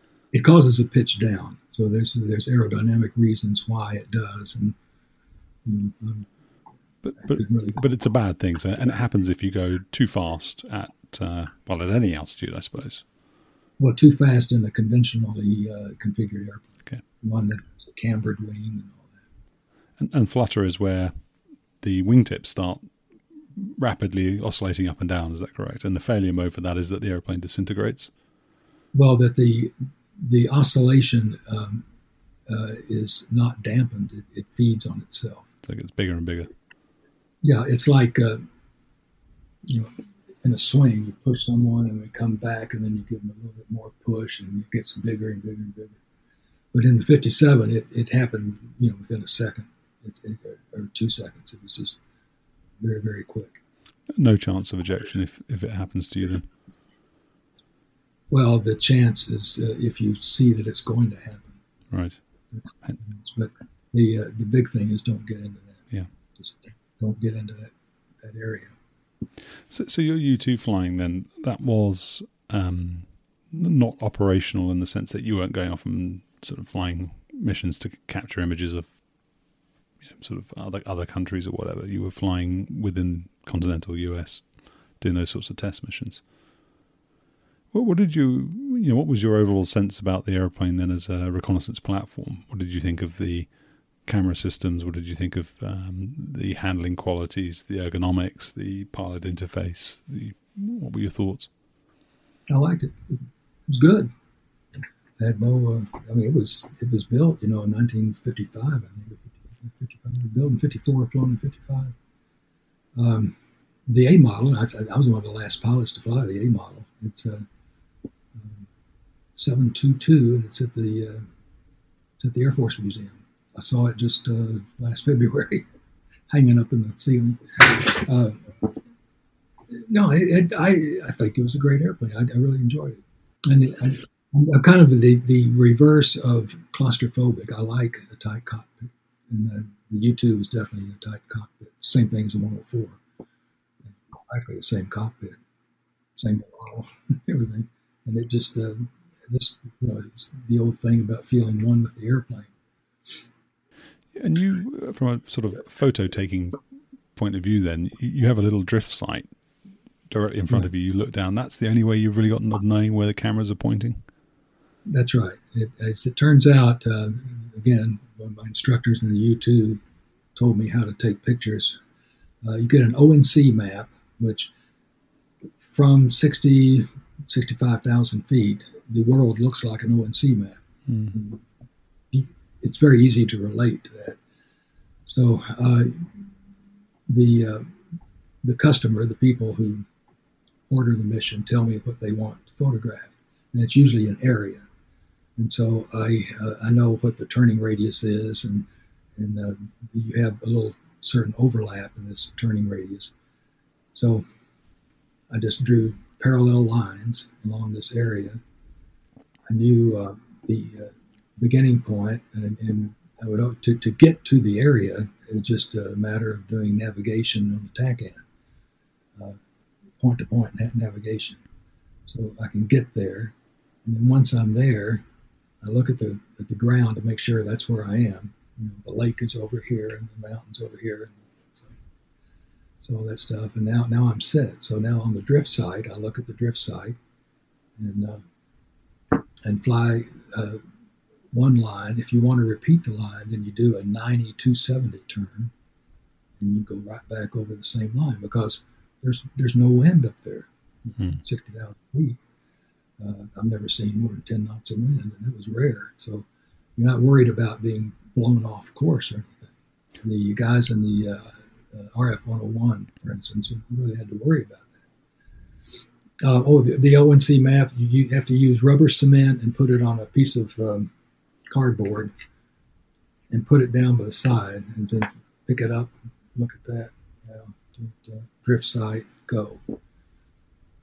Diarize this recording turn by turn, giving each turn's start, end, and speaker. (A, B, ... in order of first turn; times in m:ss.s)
0:00.3-0:04.8 A
0:05.6-0:06.3 A
0:07.0-0:13.0 B
0:07.2-0:07.8 A
0:13.8-0:19.2 A
0:20.0-0:21.1 B
0:21.8-0:22.9 B
0:23.5-0:28.1 B
0:28.9-0:31.8 A
0:32.5-0:35.5 A
0:35.6-0:36.5 B
0:37.4-0:38.4 A
0:39.6-0:46.0 A
0:46.7-0:52.0 A
0:52.8-0:53.6 A
0:54.1-0:56.5 B
0:58.3-1:01.6 A
1:01.9-1:02.2 B
1:02.5-1:05.8 A
1:06.4-1:08.7 A
1:09.7-1:18.9 B
1:20.1-1:26.2 B
1:27.7-1:33.5 B
1:34.0-1:41.5 B
1:42.5-1:44.1 A
1:45.2-1:51.9 A
1:52.9-1:53.4 A
1:53.9-1:57.4 A
1:58.3-1:58.6 A
1:59.3-2:01.2 A
2:02.2-2:05.6 A
2:06.3-2:08.7 A
2:09.7-2:23.0 A
2:23.9-2:25.4 A
2:26.2-2:32.5 A
2:34.1-2:36.6 B
2:37.2-2:39.3 B
2:40.1-2:44.0 B
2:44.9-2:49.8 A
2:50.3-2:51.8 A
2:52.4-2:54.5 A
2:55.6-3:01.4 A
3:00.9-3:01.2 B
3:02.1-3:04.2 A
3:05.0-3:06.2 A
3:07.1-3:07.7 A
3:08.4-3:09.8 A
3:10.7-3:14.6 A
3:15.4-3:23.1 A
3:23.9-3:24.2 A
3:25.3-3:28.4 A
3:29.5-3:38.2 A
3:40.0-3:41.4 A
3:42.0-3:45.0 A
3:45.6-3:51.8 A
3:52.8-3:57.0 A
3:57.8-3:58.2 A
3:59.4-4:00.6 A
4:01.3-4:05.5 A
4:06.4-4:10.5 A
4:11.1-4:12.2 A
4:13.0-4:24.8 A
4:26.2-4:30.9 A
4:31.5-4:32.1 A
4:33.3-4:39.8 A